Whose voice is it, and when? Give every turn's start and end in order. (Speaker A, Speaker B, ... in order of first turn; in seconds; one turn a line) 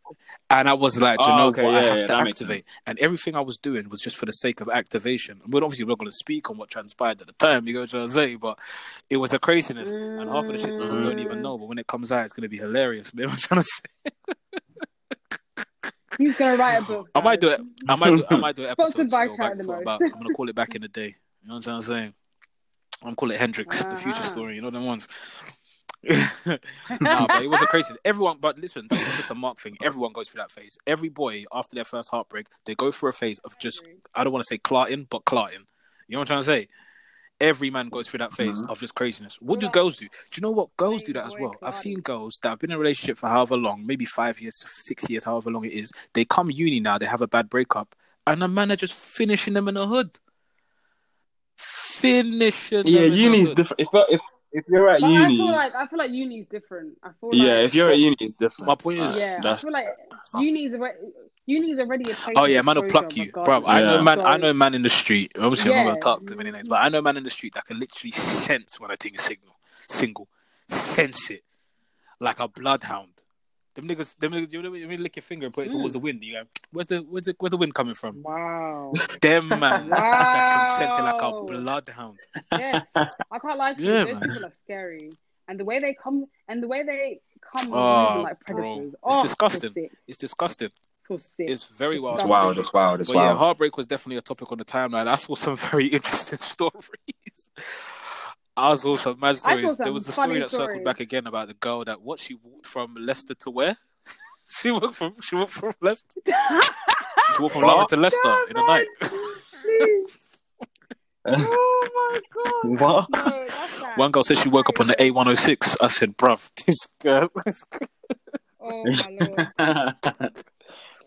Speaker A: 0.5-8.6
Speaker B: 1.2-2.6
Speaker A: 9.1-14.1
Speaker C: 9.8-11.5
Speaker B: 10.9-11.2
Speaker C: 16.2-17.9
Speaker A: 16.7-22.1
Speaker B: 17.9-18.4
Speaker C: 18.8-20.1
Speaker A: 23.0-25.5
Speaker C: 23.7-24.5
Speaker A: 26.1-36.7
Speaker C: 26.9-27.7
Speaker C: 33.6-34.0
Speaker A: 37.4-50.2
Speaker B: 38.4-38.7
Speaker C: 39.5-39.8
Speaker C: 40.8-42.0
Speaker A: 51.6-53.6
Speaker B: 52.8-55.6
Speaker C: 55.0-58.0
Speaker B: 57.3-59.7
Speaker A: 58.6-59.2
Speaker C: 59.1-64.5
Speaker A: 62.3-71.4
Speaker B: 63.7-64.1
Speaker C: 65.6-66.7
Speaker A: 72.2-73.2
Speaker A: 73.8-78.2
Speaker C: 75.7-76.0
Speaker C: 78.1-79.0
Speaker A: 79.2-82.2
Speaker B: 79.5-80.0
Speaker C: 79.8-81.6
Speaker B: 82.5-83.1
Speaker C: 82.5-89.9
Speaker A: 83.8-84.3
Speaker A: 87.7-90.7
Speaker C: 91.0-92.7
Speaker A: 91.5-103.8
Speaker B: 92.1-93.4
Speaker C: 99.4-101.0
Speaker A: 104.5-106.1
Speaker C: 106.3-110.1
Speaker A: 107.3-109.0
Speaker B: 107.6-107.9
Speaker B: 111.2-111.5
Speaker C: 111.3-115.1
Speaker B: 112.6-113.3
Speaker A: 113.9-117.9
Speaker C: 118.6-119.5
Speaker B: 118.9-120.3